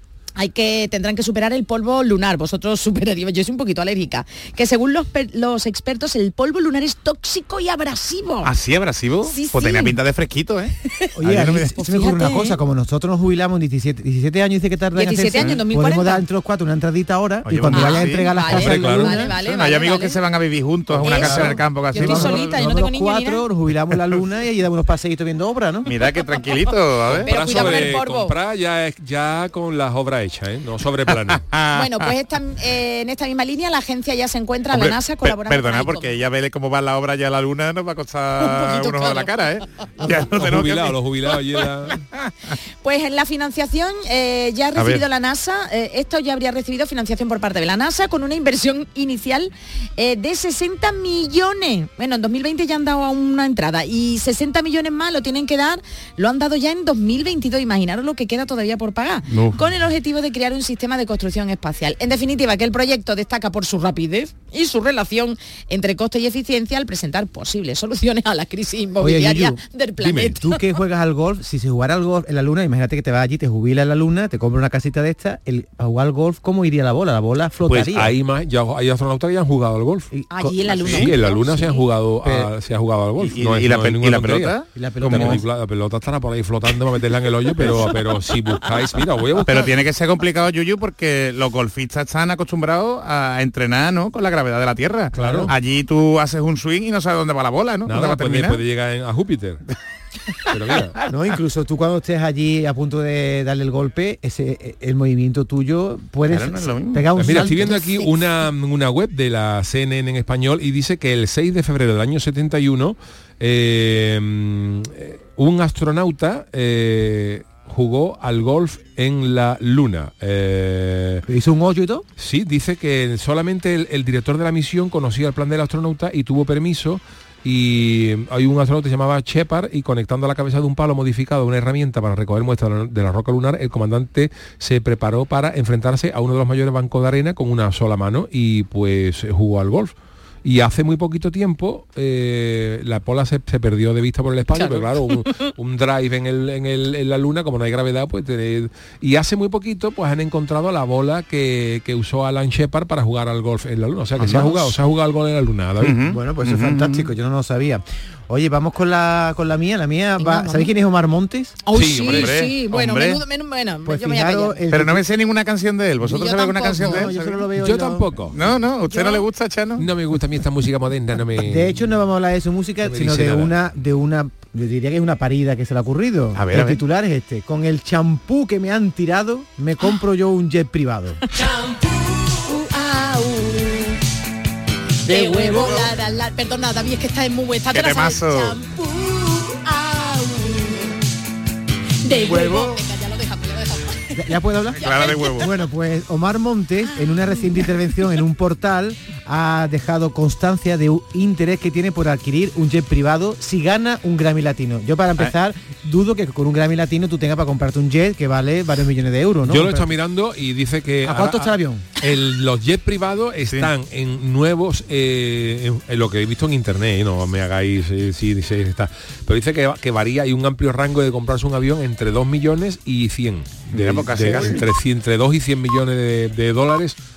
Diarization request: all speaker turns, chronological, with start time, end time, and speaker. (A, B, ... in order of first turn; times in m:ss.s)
0:00.4-0:08.5 A
0:08.4-0:11.7 B
0:09.3-0:09.9 A
0:11.1-0:19.4 C
0:11.8-0:12.6 A
0:14.9-0:16.2 A
0:17.4-0:18.3 B
0:17.6-0:20.2 A
0:18.5-0:19.2 D
0:19.4-0:22.6 B
0:20.9-0:21.5 D
0:21.0-0:25.9 C
0:21.0-0:23.4 A
0:25.8-0:27.9 B
0:27.1-0:31.4 D
0:27.2-0:28.4 A
0:31.4-0:32.1 B
0:31.7-0:36.1 A
0:34.7-0:42.3 B
0:38.4-0:39.3 A
0:40.1-0:42.0 D
0:42.8-1:10.6 A
0:44.8-0:45.0 B
0:59.3-0:59.6 B
1:09.0-1:18.1 C
1:10.0-1:10.4 D
1:17.7-1:20.1 D
1:20.1-1:20.9 C
1:20.3-1:21.9 A
1:20.8-1:21.1 B
1:20.8-1:29.7 D
1:22.2-1:22.5 B
1:23.2-1:25.4 B
1:24.7-1:25.4 C
1:27.6-1:28.0 B
1:29.4-1:38.6 B
1:35.1-1:35.5 C
1:35.2-1:35.5 D
1:37.9-1:39.6 D
1:40.5-1:41.0 D
1:41.1-1:47.7 C
1:46.3-1:47.1 B
1:47.1-2:01.2 D
1:47.3-1:48.2 A
2:01.2-2:02.1 C
2:02.2-2:36.0 D
2:24.5-2:25.5 A
2:34.2-2:34.7 B
2:35.8-2:37.1 B
2:36.1-2:41.6 C
2:40.2-2:40.7 A
2:41.6-2:44.6 A
2:41.7-2:42.4 D
2:42.0-2:43.2 B
2:43.8-2:45.1 C
2:44.7-2:47.5 B
2:46.0-2:47.1 A
2:46.8-2:48.3 C
2:47.6-2:48.4 D
2:48.3-2:49.9 B
2:48.9-2:49.2 A
2:49.8-2:51.8 D
2:51.4-3:01.2 C
2:52.9-2:53.5 D
2:56.4-2:56.8 B
3:01.3-3:04.0 A
3:05.0-3:11.0 A
3:05.1-3:05.8 C
3:05.4-3:05.9 B
3:07.7-3:08.6 B
3:12.0-3:14.2 A
3:12.2-3:12.8 C
3:14.2-3:29.9 C
3:14.8-3:15.4 A
3:14.8-3:15.5 B
3:16.9-3:18.1 A
3:29.5-3:47.0 D
3:31.0-3:31.8 C
3:43.7-3:44.6 B